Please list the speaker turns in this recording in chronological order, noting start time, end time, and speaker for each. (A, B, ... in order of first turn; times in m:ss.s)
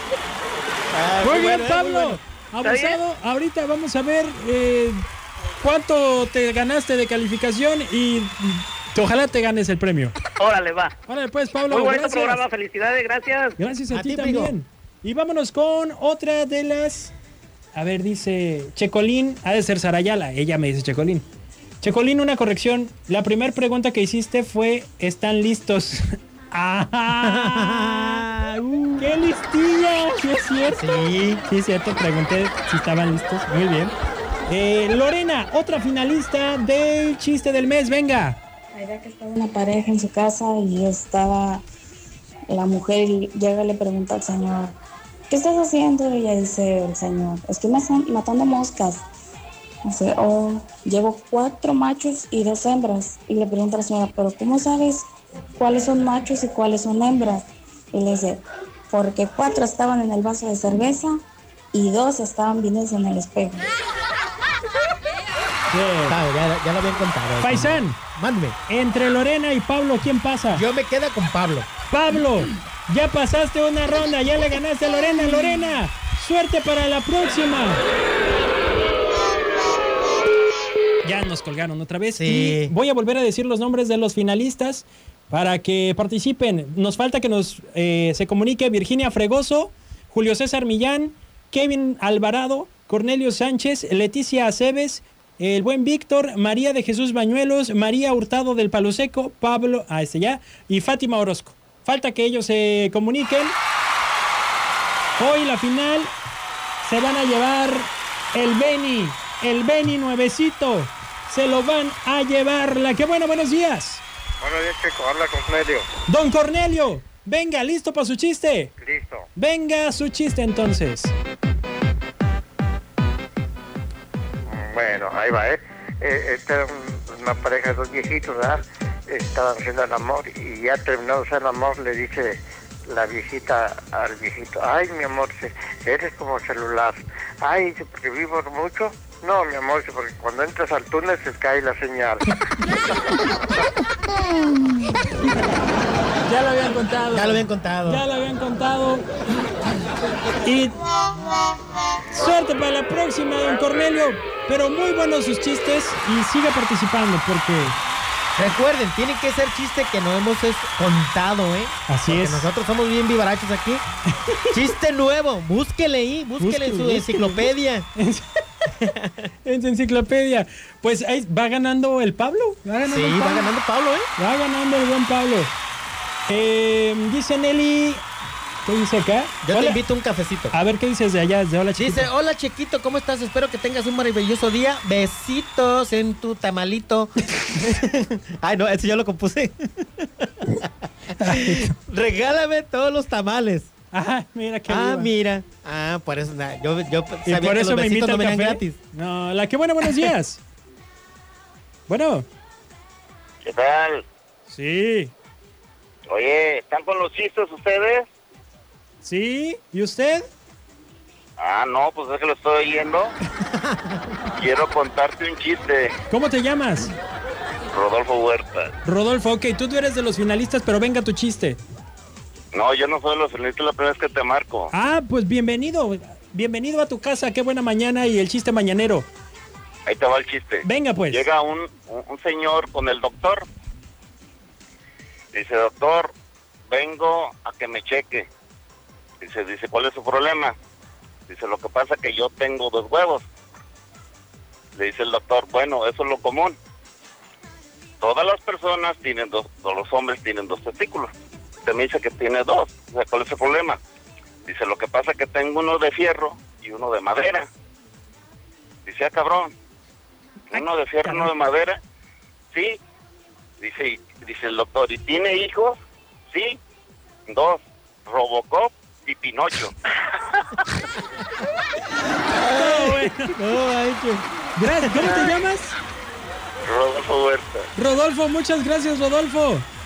0:00.9-0:02.2 A
0:01.2-0:05.0 B
0:02.6-0:03.0 C
0:05.6-0:10.2 B
0:10.4-0:10.9 C
0:11.0-0:12.4 B
0:11.7-0:13.6 C
0:13.6-0:17.1 B
0:13.9-0:14.6 A
0:17.7-0:21.2 B
0:21.8-0:28.2 B
0:27.2-0:29.0 A
0:29.0-0:30.8 B
0:30.7-0:31.4 A
0:31.4-0:34.0 B
0:34.5-0:38.4 B
0:38.8-0:41.6 D
0:42.5-0:44.7 D
0:45.3-0:49.0 D
0:49.9-0:55.0 D
0:55.6-0:57.4 D
0:57.9-1:01.2 D
1:01.7-1:03.6 D
1:05.7-1:06.2 B
1:06.1-1:08.6 A
1:07.4-1:08.0 B
1:08.7-1:10.6 B
1:10.5-1:11.7 A
1:11.9-1:17.8 B
1:21.0-1:43.6 B
1:22.2-1:22.7 A
1:45.2-1:46.1 B
1:46.8-1:54.0 B
1:54.4-1:55.8 E
1:56.1-1:58.7 B
1:58.8-1:59.2 E
1:59.3-2:01.1 B
2:04.5-2:22.2 E
2:26.2-2:29.0 B
2:27.1-2:28.0 A
2:30.4-2:30.7 B
2:32.1-2:37.8 B
2:38.4-2:43.8 A
2:41.9-2:42.5 B
2:44.5-2:47.9 A
2:46.4-2:48.3 B
2:48.8-2:49.2 A
2:49.4-2:53.5 B
2:52.8-2:54.1 A
2:54.2-2:55.5 B
2:56.3-2:58.0 B
2:58.6-2:59.8 B
2:59.4-3:00.5 A
3:00.5-3:02.1 B
3:01.8-3:10.7 A
3:11.2-3:11.7 B
3:11.2-3:13.7 A
3:13.9-3:15.1 B
3:14.7-3:18.8 A
3:17.2-3:20.4 B
3:19.8-3:20.1 A
3:21.9-3:22.3 B
3:23.4-3:24.0 F
3:24.5-3:25.1 B
3:26.1-3:28.1 F
3:29.0-3:30.3 B
3:31.4-3:33.2 F
3:34.4-3:35.9 F
3:36.1-3:36.9 B
3:37.7-3:38.7 F
3:38.8-3:41.6 B
3:42.5-3:44.7 F
3:44.7-3:49.1 B
3:49.8-3:53.4 F
3:50.6-3:51.2 B
3:55.3-3:56.1 F
3:56.7-3:58.3 F
3:59.2-4:00.6 F
4:01.3-4:03.2 F
4:04.8-4:06.6 F
4:08.0-4:11.1 F
4:11.6-4:13.8 F
4:14.4-4:17.5 F
4:18.8-4:19.5 F
4:20.5-4:21.8 F
4:22.5-4:22.8 F
4:23.6-4:25.8 F
4:26.3-4:26.6 F
4:27.3-4:29.7 F
4:32.3-4:34.2 A
4:32.5-4:33.3 B
4:34.6-4:35.7 B
4:34.8-4:35.1 A
4:36.6-4:37.7 F
4:37.8-4:39.6 B